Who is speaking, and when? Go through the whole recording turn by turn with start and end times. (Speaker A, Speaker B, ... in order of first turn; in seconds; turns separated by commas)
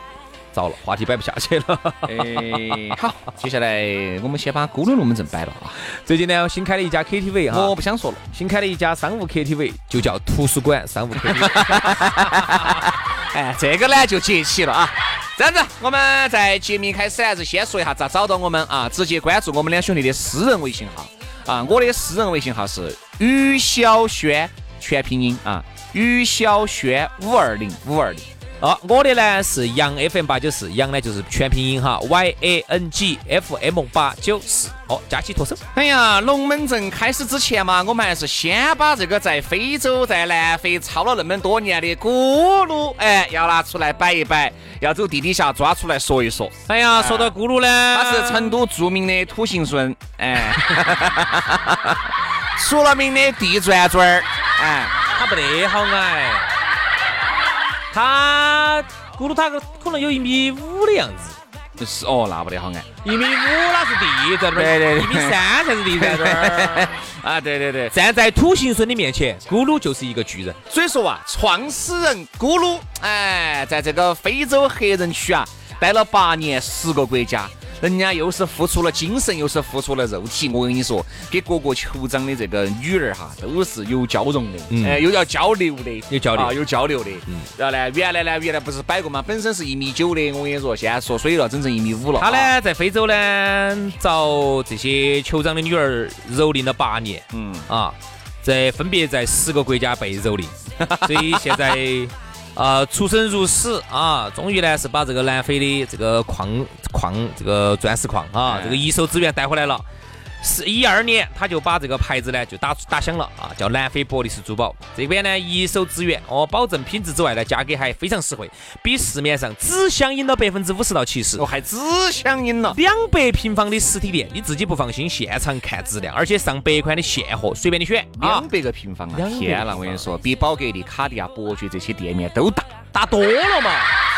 Speaker A: 0.5-3.0, Speaker B: 2.1-5.8, Speaker A: 6.0-7.8, Speaker B: 7.5-8.2, Speaker A: 8.3-12.8, Speaker B: 11.3-28.3, Speaker A: 28.6-35.6, Speaker B: 35.7-47.4, Speaker A: 46.7-48.6, Speaker B: 47.9-52.0, Speaker B: 52.6-55.0, Speaker A: 55.1-56.5, Speaker A: 57.9-61.4, Speaker B: 61.8-62.9, Speaker A: 63.0-67.0, Speaker B: 64.5-65.4, Speaker B: 65.9-67.9, Speaker A: 67.9-70.6, Speaker B: 70.7-92.5, Speaker A: 84.7-85.1, Speaker A: 86.1-86.6, Speaker A: 92.2-109.8, Speaker B: 97.3-97.7, Speaker B: 100.8-101.6, Speaker B: 108.5-108.9, Speaker A: 110.4-121.5, Speaker B: 121.4-122.8, Speaker A: 122.7-128.5, Speaker B: 128.2-132.8, Speaker A: 129.1-130.1, Speaker A: 132.9-133.9